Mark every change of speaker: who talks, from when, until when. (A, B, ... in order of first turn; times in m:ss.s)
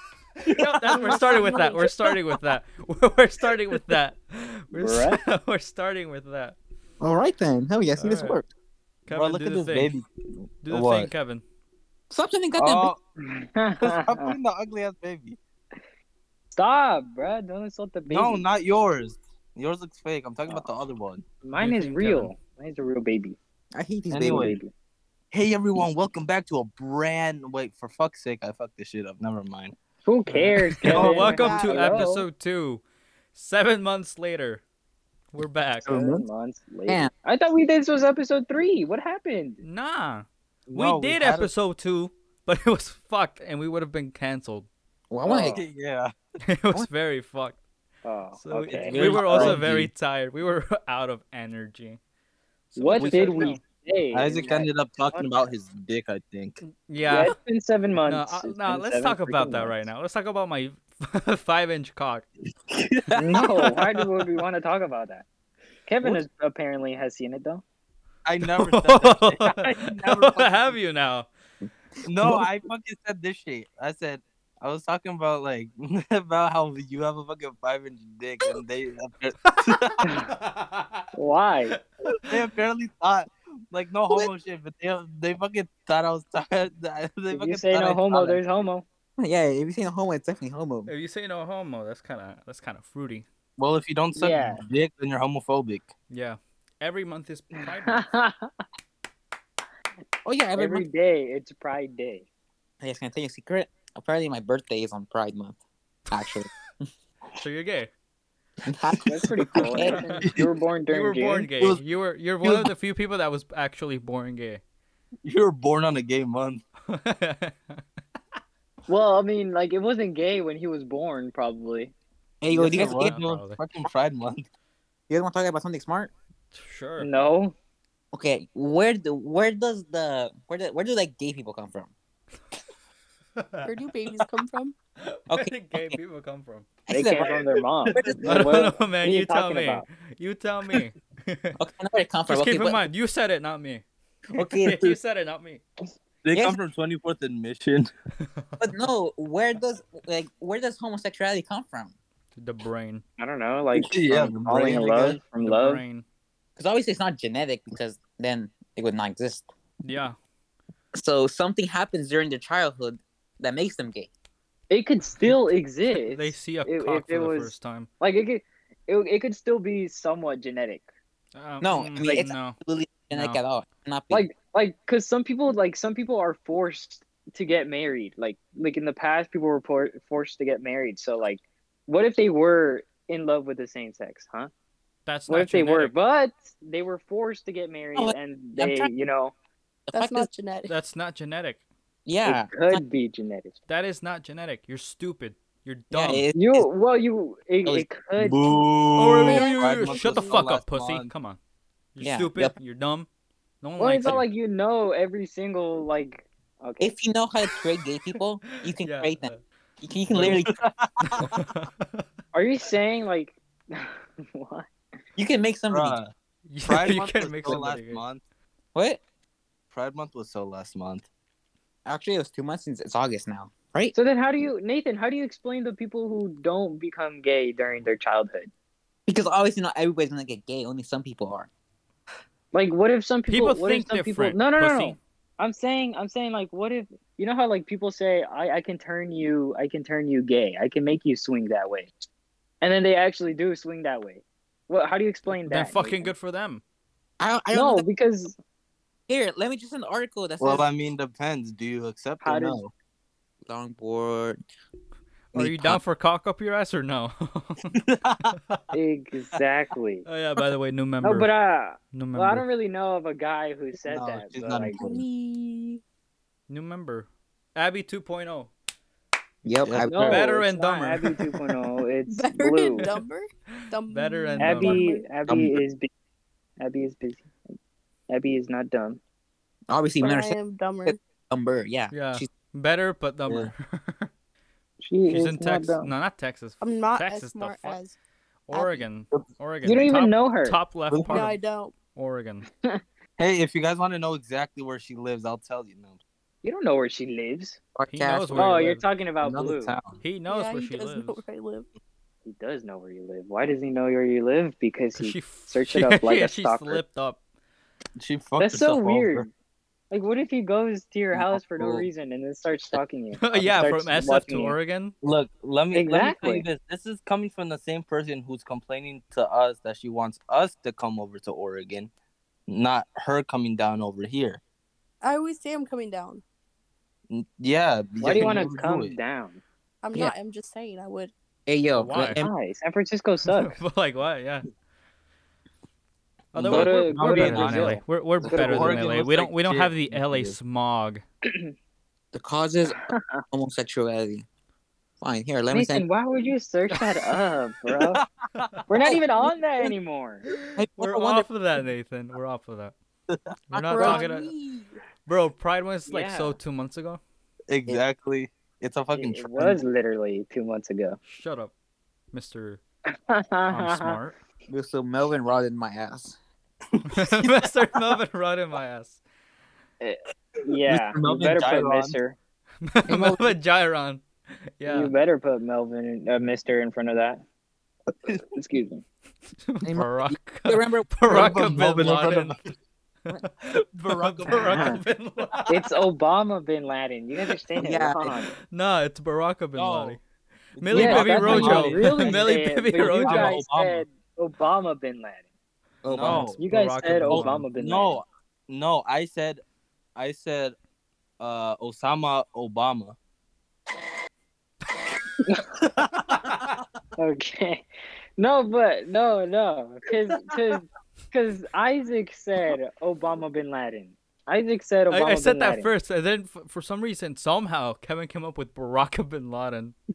0:00.4-0:01.2 A
0:00.5-0:06.6 B
0:00.9-0:01.9 C
0:04.7-0:05.2 D
0:07.0-0:08.5 E
0:08.0-0:08.4 B
0:09.1-0:09.9 B
0:09.1-0:10.1 A
0:10.6-0:11.4 B
0:10.7-0:11.1 A
0:12.1-0:12.9 E
0:12.6-0:13.0 A
0:13.2-0:14.4 D
0:13.8-0:15.4 A
0:16.5-0:18.4 D
0:18.1-0:21.2 A
0:20.5-0:20.7 D
0:21.4-0:23.4 D
0:21.6-0:22.3 B
0:23.8-0:24.5 E
0:24.1-0:24.7 D
0:24.1-0:24.6 A
0:25.3-0:29.8 A
0:25.8-0:26.1 E
0:30.0-0:32.3 D
0:30.3-0:32.8 B
0:30.9-0:31.2 A
0:31.2-0:32.0 C
0:33.3-0:34.6 B
0:35.3-0:35.9 B
0:35.8-0:36.3 E
0:35.8-0:39.6 D
0:39.6-0:44.7 B
0:40.7-0:41.5 A
0:45.1-0:45.6 E
0:45.2-0:45.6 D
0:45.5-0:46.1 A
0:46.4-0:47.6 B
0:48.0-0:49.0 D
0:48.4-0:52.0 B
0:48.7-0:49.9 A
0:48.9-0:49.6 E
0:52.7-0:53.6 B
0:52.8-0:55.5 D
0:53.0-0:53.5 A
0:54.1-0:56.6 A
0:56.8-0:57.3 B
0:57.0-0:59.9 D
0:58.0-1:02.2 B
1:02.7-1:04.0 A
1:03.2-1:05.2 D
1:05.8-1:07.6 D
1:08.2-1:10.8 A
1:08.4-1:11.3 B
1:09.4-1:09.8 D
1:12.0-1:20.0 A
1:12.2-1:12.4 E
1:19.6-1:21.1 B
1:20.0-1:20.3 D
1:21.2-1:21.7 D
1:21.8-1:22.3 B
1:22.1-1:28.4 A
1:27.3-1:28.8 D
1:29.2-1:30.9 E
1:30.9-1:33.2 B
1:33.6-1:35.9 A
1:34.1-1:34.6 D
1:36.1-1:38.0 B
1:37.8-1:38.5 D
1:40.2-1:40.8 E
1:40.6-1:42.2 D
1:42.8-1:45.6 E
1:46.1-1:46.5 E
1:47.4-1:47.9 B
1:48.7-1:50.0 E
1:49.0-1:51.5 D
1:49.7-1:50.3 B
1:50.2-1:50.5 A
1:50.9-1:54.6 B
1:52.4-1:52.7 A
1:55.2-1:56.6 A
1:56.9-1:57.8 B
1:58.9-2:01.9 D
2:02.4-2:03.1 E
2:02.5-2:03.6 B
2:02.5-2:04.5 A
2:05.1-2:06.1 E
2:06.5-2:07.1 B
2:07.0-2:07.5 D
2:08.1-2:11.9 E
2:13.4-2:13.7 B
2:13.6-2:14.8 C
2:15.0-2:16.7 B
2:15.3-2:16.0 E
2:16.9-2:17.4 E
2:16.9-2:19.8 D
2:17.3-2:18.4 A
2:17.9-2:18.7 E
2:18.2-2:21.6 B
2:21.6-2:22.8 E
2:22.3-2:23.8 B
2:24.3-2:25.0 E
2:24.5-2:25.6 B
2:26.2-2:27.9 A
2:28.2-2:28.7 B
2:28.6-2:31.9 E
2:32.4-2:33.0 B
2:33.2-2:35.8 D
2:33.7-2:35.2 A
2:34.1-2:34.8 E
2:35.4-2:36.0 B
2:36.6-2:39.5 E
2:39.8-2:40.2 B
2:40.9-2:44.1 E
2:44.7-2:50.9 D
2:46.1-2:47.9 B
2:51.4-2:52.6 B
2:51.6-2:54.2 E
2:53.1-2:53.4 B
2:54.1-3:04.5 D
3:05.1-3:05.9 B
3:05.3-3:09.3 D
3:08.0-3:08.9 E
3:09.9-3:10.3 E
3:09.9-3:10.7 C
3:10.7-3:11.6 B
3:12.1-3:12.8 E
3:12.2-3:13.5 D
3:13.7-3:16.2 B
3:15.9-3:16.7 E
3:16.3-3:18.6 D
3:18.2-3:21.1 A
3:19.0-3:21.4 B
3:19.2-3:20.4 C
3:21.9-3:23.1 B
3:22.0-3:22.5 E
3:23.6-3:24.2 B
3:23.8-3:26.9 D
3:26.8-3:30.5 E
3:28.6-3:29.4 B
3:30.1-3:31.4 A
3:31.3-3:32.0 B
3:32.3-3:34.7 D
3:35.2-3:36.0 E
3:35.7-3:36.1 A
3:36.5-3:38.0 B
3:36.7-3:38.2 A
3:38.8-3:39.0 E
3:39.7-3:41.1 A
3:41.8-3:43.9 E
3:43.9-3:48.5 D
3:49.1-3:51.5 E
3:52.5-4:02.0 D
3:53.3-3:55.0 B
4:02.6-4:06.1 D
4:05.3-4:06.6 B
4:07.2-4:07.8 E
4:07.5-4:08.3 D
4:09.1-4:10.7 E
4:10.4-4:12.7 A
4:12.2-4:12.6 D
4:13.4-4:14.4 E
4:15.3-4:15.8 E
4:15.3-4:17.7 B
4:17.8-4:18.4 A
4:18.7-4:20.1 D
4:20.1-4:21.3 B
4:21.0-4:24.8 D
4:21.9-4:22.4 B
4:23.9-4:25.0 A
4:24.8-4:25.8 C
4:26.5-4:28.5 B
4:29.4-4:30.3 E
4:29.6-4:30.2 A
4:29.9-4:32.9 D
4:30.1-4:31.2 B
4:32.1-4:35.1 C
4:32.8-4:34.8 B
4:34.4-4:35.9 D
4:35.3-4:35.6 A
4:36.6-4:37.6 D
4:38.1-4:39.0 D
4:39.7-4:42.3 E
4:40.0-4:41.0 C
4:41.9-4:44.1 B
4:43.2-4:43.5 A
4:44.8-4:45.9 D
4:45.1-4:47.8 B
4:46.6-4:48.0 C
4:48.5-4:51.4 B
4:48.5-4:48.9 C
4:49.6-4:50.6 D
4:50.9-4:51.3 A
4:51.1-4:51.8 C
4:52.0-4:52.5 B
4:53.2-4:56.0 A
4:56.4-4:57.6 D
4:57.8-4:58.6 E
4:57.9-4:58.8 B
4:58.4-4:59.8 D
4:59.2-5:00.0 A
5:00.0-5:01.2 B
5:00.3-5:01.7 C
5:02.2-5:06.8 D
5:05.0-5:07.2 B
5:08.0-5:09.3 A
5:08.4-5:09.3 D
5:09.9-5:14.6 D
5:11.1-5:11.9 A
5:13.2-5:15.0 B
5:15.0-5:21.9 A
5:15.7-5:16.5 D
5:22.5-5:24.4 A
5:25.0-5:26.2 C
5:27.1-5:29.0 A
5:28.0-5:29.4 D
5:28.0-5:28.3 E
5:29.8-5:31.1 C
5:31.5-5:32.3 E
5:31.8-5:32.2 B
5:32.2-5:33.6 D
5:33.3-5:34.5 B
5:36.3-5:41.0 B
5:36.4-5:40.4 A
5:36.5-5:38.8 D
5:41.2-5:41.5 D
5:42.1-5:42.8 E
5:42.9-5:43.2 D
5:43.3-5:44.2 E
5:45.0-5:45.9 E
5:45.5-5:48.0 D
5:47.7-5:48.6 A
5:48.7-5:50.2 D
5:50.6-5:51.3 E
5:50.8-5:52.7 B
5:53.1-5:54.0 A
5:53.5-5:54.3 B
5:53.7-5:54.8 C
5:55.1-5:57.0 B
5:55.9-5:56.4 D
5:57.5-5:59.6 A
5:59.0-6:01.0 D
6:01.0-6:01.5 B
6:02.1-6:02.6 B
6:03.1-6:04.0 D
6:03.5-6:04.1 B
6:04.5-6:06.2 E
6:06.7-6:07.9 A
6:06.9-6:09.0 B
6:09.8-6:12.2 D
6:10.7-6:12.0 A
6:12.6-6:14.0 B
6:12.9-6:13.3 E
6:14.6-6:14.9 B
6:14.7-6:17.2 D
6:18.3-6:18.8 D
6:19.4-6:22.4 B
6:19.6-6:21.2 E
6:21.1-6:22.5 A
6:23.1-6:25.6 B
6:23.8-6:24.7 A
6:24.3-6:24.8 D
6:24.5-6:24.8 E
6:25.5-6:28.3 D
6:27.6-6:28.0 E
6:28.5-6:30.0 B
6:29.6-6:30.0 A
6:30.6-6:33.4 B
6:30.6-6:33.8 A
6:30.7-6:35.2 D
6:30.8-6:31.4 E
6:35.8-6:36.2 E
6:35.9-6:36.4 A
6:36.0-6:37.4 B
6:36.4-6:38.0 D
6:36.9-6:39.4 A
6:40.0-6:40.6 A
6:41.2-6:43.0 A
6:45.7-6:46.5 A
6:47.0-6:47.7 D
6:48.2-6:55.7 D
6:54.9-6:59.8 B